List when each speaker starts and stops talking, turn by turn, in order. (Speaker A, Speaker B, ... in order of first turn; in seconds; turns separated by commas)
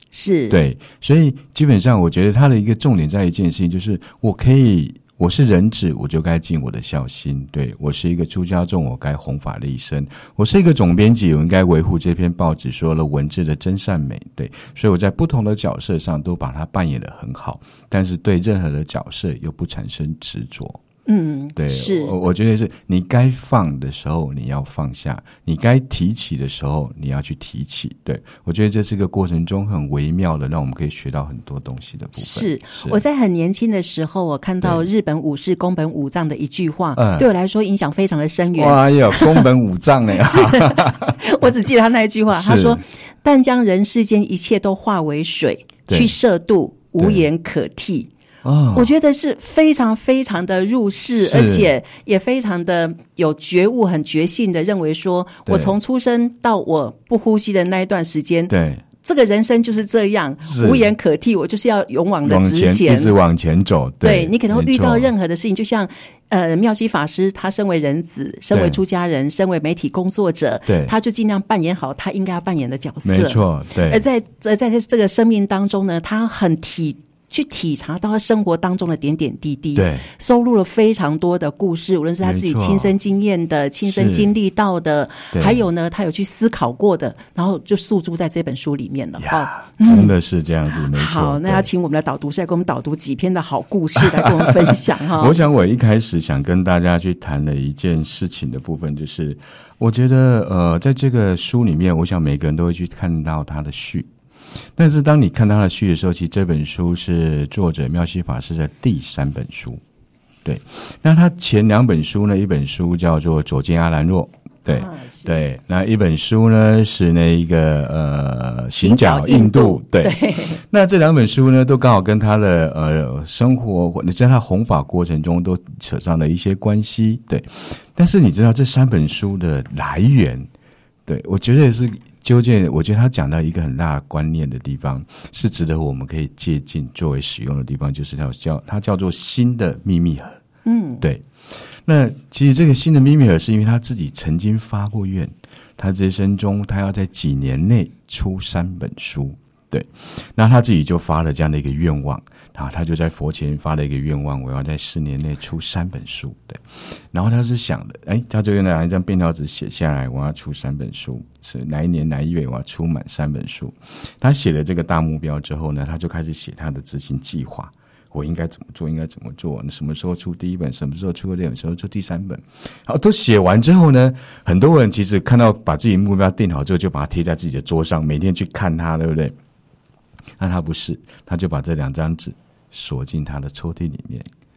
Speaker A: 0.1-0.6, Speaker B: 0.5-20.8, Speaker A: 21.1-22.1, Speaker B: 21.6-33.0, Speaker A: 32.2-39.5, Speaker B: 37.0-37.2, Speaker B: 38.5-41.2, Speaker A: 40.2-48.1, Speaker B: 42.3-42.8, Speaker B: 45.9-46.1, Speaker B: 47.0-47.2, Speaker B: 48.4-48.9, Speaker A: 48.7-63.1, Speaker B: 51.2-51.7, Speaker B: 55.5-55.8, Speaker B: 58.5-58.8, Speaker B: 60.4-60.9, Speaker B: 62.2-65.1, Speaker A: 64.0-90.1, Speaker B: 68.5-68.8, Speaker B: 70.7-70.9, Speaker B: 73.0-74.0, Speaker B: 79.8-80.1, Speaker B: 82.2-82.9, Speaker B: 83.9-84.3, Speaker B: 85.3-85.6, Speaker B: 89.2-91.7, Speaker A: 90.9-95.4, Speaker B: 94.0-104.1, Speaker B: 104.8-109.8, Speaker B: 110.4-130.5, Speaker A: 114.7-115.4, Speaker A: 118.8-120.6, Speaker B: 131.1-140.4, Speaker A: 140.6-141.0, Speaker B: 141.0-141.2, Speaker B: 141.8-179.3, Speaker B: 180.4-184.3